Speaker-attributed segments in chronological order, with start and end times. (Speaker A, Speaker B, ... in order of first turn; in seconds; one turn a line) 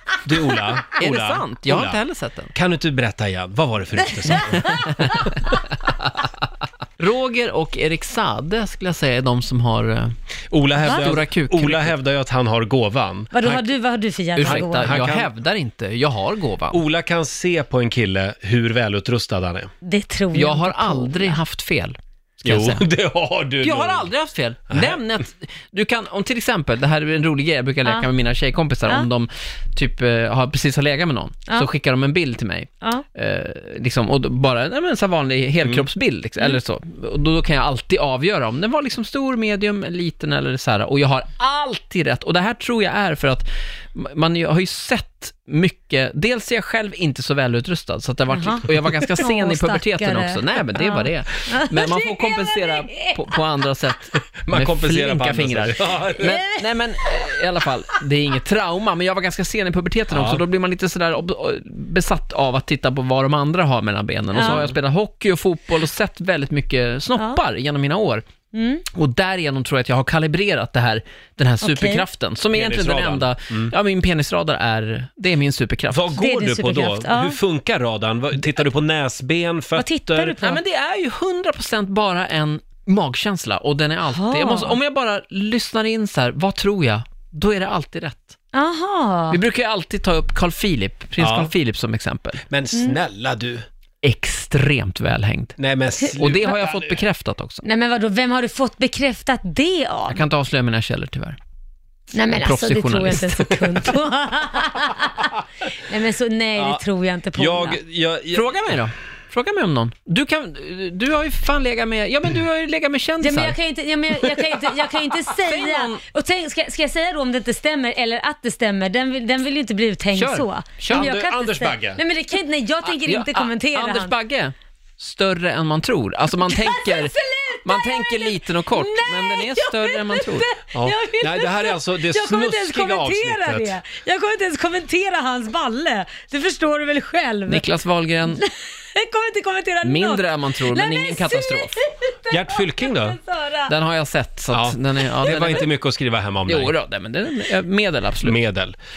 Speaker A: 0.2-2.0
Speaker B: 1.0-2.5
Speaker A: 2.5-5.3
Speaker B: 4.7-5.2
Speaker B: 7.0-10.1
Speaker A: 10.5-13.7
Speaker B: 10.8-11.9
Speaker C: 10.8-11.1
Speaker C: 13.3-14.9
Speaker B: 14.3-16.8
Speaker A: 14.4-15.3
Speaker A: 16.7-19.7
Speaker C: 19.8-21.4
Speaker B: 20.3-22.8
Speaker A: 22.4-24.1
Speaker B: 23.6-68.2
Speaker A: 24.7-25.0
Speaker C: 48.3-53.4
Speaker A: 54.4-56.4
Speaker C: 56.2-56.6
Speaker A: 60.1-60.4
Speaker C: 64.3-64.6
Speaker A: 64.4-64.8
Speaker C: 68.5-68.8
Speaker B: 68.9-76.1
Speaker C: 71.6-72.0
Speaker A: 72.5-73.7
Speaker A: 75.9-80.4
Speaker C: 76.2-77.4
Speaker C: 79.8-80.6
Speaker B: 80.4-88.4
Speaker C: 84.1-84.8
Speaker C: 88.5-89.4
Speaker B: 89.3-92.4
Speaker A: 91.2-91.5
Speaker A: 92.5-93.6
Speaker B: 94.0-95.6
Speaker A: 95.6-97.0
Speaker B: 96.2-97.6
Speaker C: 97.6-100.2
Speaker B: 100.1-101.4
Speaker C: 102.1-107.8
Speaker B: 102.4-103.8
Speaker A: 106.5-108.8
Speaker B: 108.3-113.6
Speaker C: 113.2-124.1
Speaker B: 114.2-114.8
Speaker B: 115.4-116.0
Speaker B: 120.1-121.1
Speaker A: 120.9-122.0
Speaker B: 123.0-130.5
Speaker C: 126.5-137.6
Speaker A: 130.7-133.8
Speaker B: 137.5-138.4
Speaker C: 138.3-143.7
Speaker B: 139.8-141.8
Speaker A: 142.3-143.2
Speaker B: 143.7-145.7
Speaker A: 144.5-146.7
Speaker B: 146.5-148.4
Speaker A: 148.2-148.8